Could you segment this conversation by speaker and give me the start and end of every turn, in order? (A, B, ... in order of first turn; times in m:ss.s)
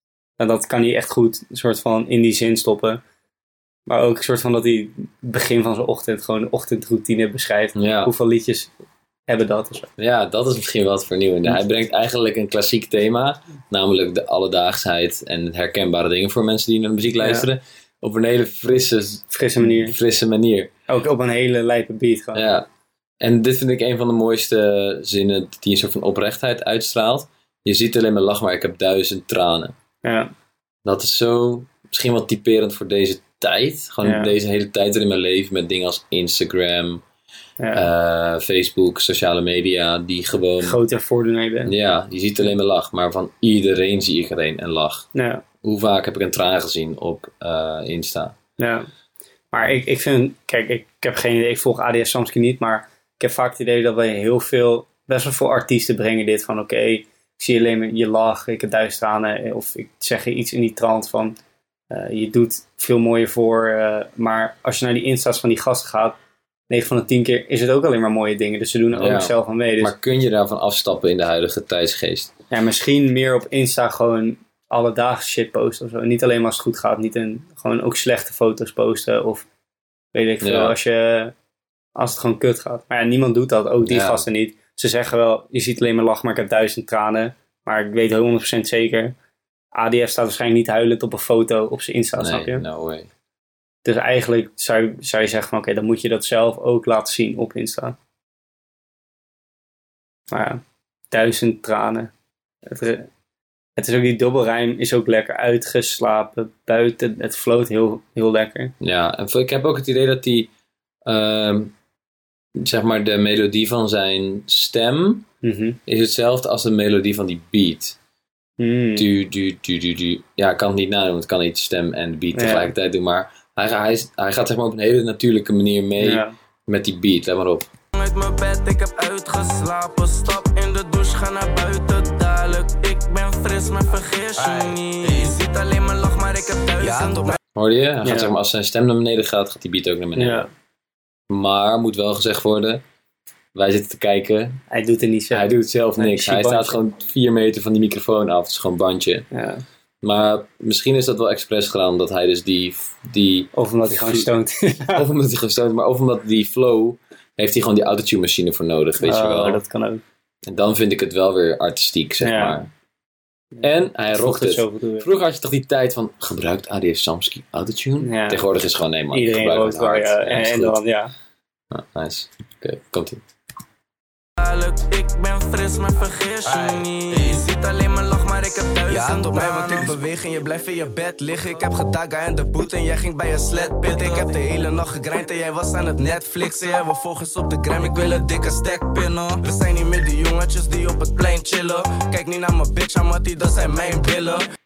0:00.4-0:03.0 A
0:03.9-0:08.7 A
0:07.8-0:08.1 B
0:09.3-0:09.9 A
0:10.0-0:20.7 B
0:17.2-0:17.5 A
0:19.3-0:20.0 A
0:20.9-0:22.5 A
0:22.3-0:22.7 B
0:23.2-0:29.7 B
0:30.0-0:30.3 A
0:30.8-0:37.0 B
0:34.0-0:34.3 A
0:37.6-0:37.9 A
0:37.7-0:40.8 B
0:40.6-0:41.7 A
0:41.7-0:45.1 B
0:45.1-0:45.4 A
0:45.6-0:48.4 B
0:48.6-0:48.9 A
0:49.5-1:01.4 A
1:01.9-1:06.2 A
1:06.7-1:09.9 A
1:08.9-1:12.3 B
1:12.5-1:19.5 A
1:20.1-1:21.3 A
1:20.4-1:20.8 B
1:22.0-1:29.2 A
1:23.8-1:24.3 B
1:29.8-1:32.6 A
1:32.2-1:33.1 B
1:33.8-1:38.0 A
1:40.3-1:42.1 A
1:42.7-1:43.1 A
1:43.8-1:48.7 A
1:48.8-1:50.5 B
1:51.0-1:51.7 B
1:52.6-1:55.3 B
1:55.4-1:55.8 A
1:55.9-1:58.0 B
1:58.6-1:59.1 A
1:59.0-2:07.7 B
2:02.3-2:02.7 A
2:06.0-2:06.3 A
2:07.9-2:17.4 C
2:14.4-2:15.4 D
2:16.8-2:17.4 D
2:17.6-2:20.5 B
2:18.0-2:18.3 A
2:20.2-2:20.5 A
2:21.3-2:22.8 B
2:23.6-2:24.6 B
2:24.7-2:26.8 A
2:25.3-2:29.3 B
2:29.3-2:29.6 A
2:30.0-2:34.3 B
2:33.5-2:35.0 A
2:35.0-2:39.6 B
2:39.0-2:40.0 A
2:40.5-2:42.7 B
2:42.2-2:42.6 A
2:43.6-2:45.1 A
2:43.6-2:50.8 B
2:48.0-2:48.4 A
2:49.1-2:51.1 A
2:51.7-2:53.2 B
2:54.4-3:00.0 C
2:56.4-2:57.6 D
2:58.9-3:08.5 D
3:03.8-3:04.4 C
3:08.0-3:09.4 C
3:09.4-3:14.4 D